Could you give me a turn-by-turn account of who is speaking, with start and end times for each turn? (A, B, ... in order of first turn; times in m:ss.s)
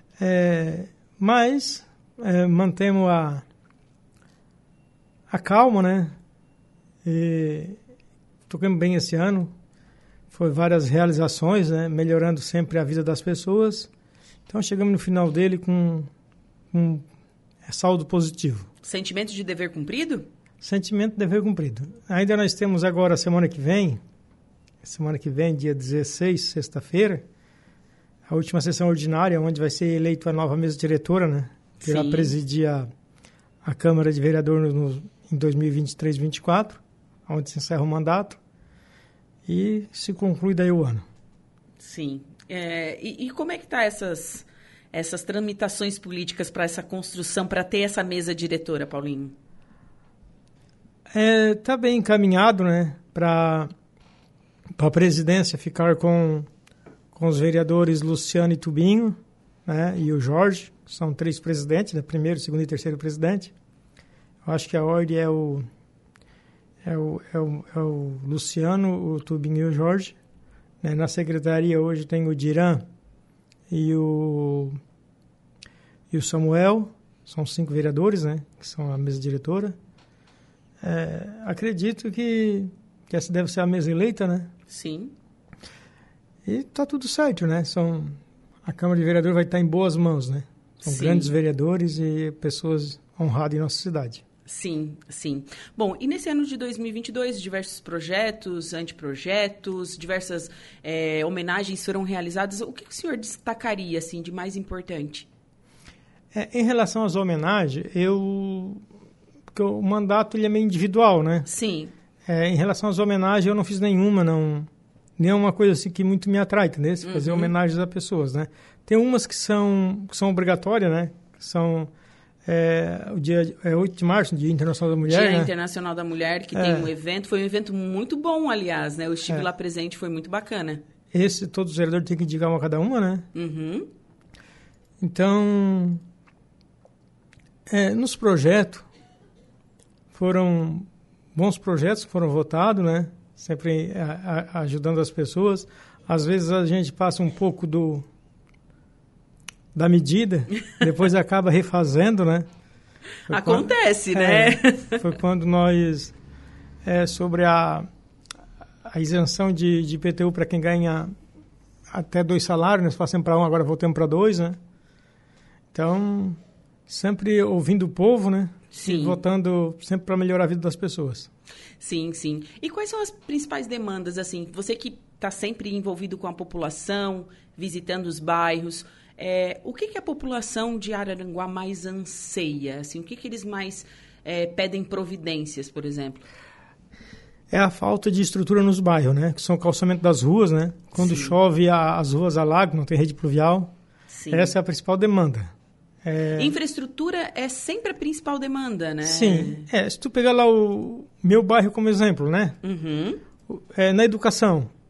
0:00.2-0:03.4 A
0:05.3-0:06.2 A
0:07.0-0:07.8 A
0:08.5-0:09.5 A
0:10.3-0:13.9 A
0:14.5-0:16.1 A
0:16.7-0:17.0 A
0:17.6-0:18.7 A
0:18.8-0:20.2 B
0:20.6-0:24.0 A
0:24.8-0:27.2 A
0:28.3-0:32.9 A
0:31.8-0:32.4 B
0:33.6-0:38.4 A
0:39.4-0:41.0 A
0:41.8-0:49.3 B
0:51.1-0:53.7 A
0:54.8-0:56.5 A
0:57.1-1:03.5 A
1:04.4-1:05.6 A
1:06.8-1:10.1 A
1:10.8-1:12.8 A
1:13.7-1:14.8 A
1:16.1-1:19.8 A
1:20.8-1:24.5 A
1:24.7-1:25.1 B
1:26.4-1:34.2 A
1:30.8-1:31.3 B
1:34.5-1:45.3 B
1:46.3-1:48.8 A
1:49.5-1:51.5 A
1:51.4-1:51.9 B
1:52.3-2:01.9 A
1:57.0-1:57.5 B
2:02.4-2:05.5 A
2:05.0-2:10.8 B
2:06.5-2:06.9 A
2:11.1-2:13.2 A
2:13.3-2:13.9 B
2:15.0-2:16.0 A
2:17.7-2:18.8 A
2:20.1-2:28.0 A
2:29.7-2:32.5 A
2:33.3-2:35.0 B
2:33.3-2:36.1 A
2:36.8-2:37.9 A
2:38.8-2:41.1 A
2:41.9-2:44.6 A
2:45.7-2:51.3 A
2:48.7-2:49.2 B
2:51.8-3:06.2 B
3:07.5-3:13.7 A
3:11.0-3:11.4 B
3:14.1-3:14.5 B
3:14.3-3:15.5 A
3:16.0-3:16.5 A
3:16.4-3:19.7 B
3:19.0-3:22.6 A
3:22.6-3:23.2 B
3:23.5-3:24.7 A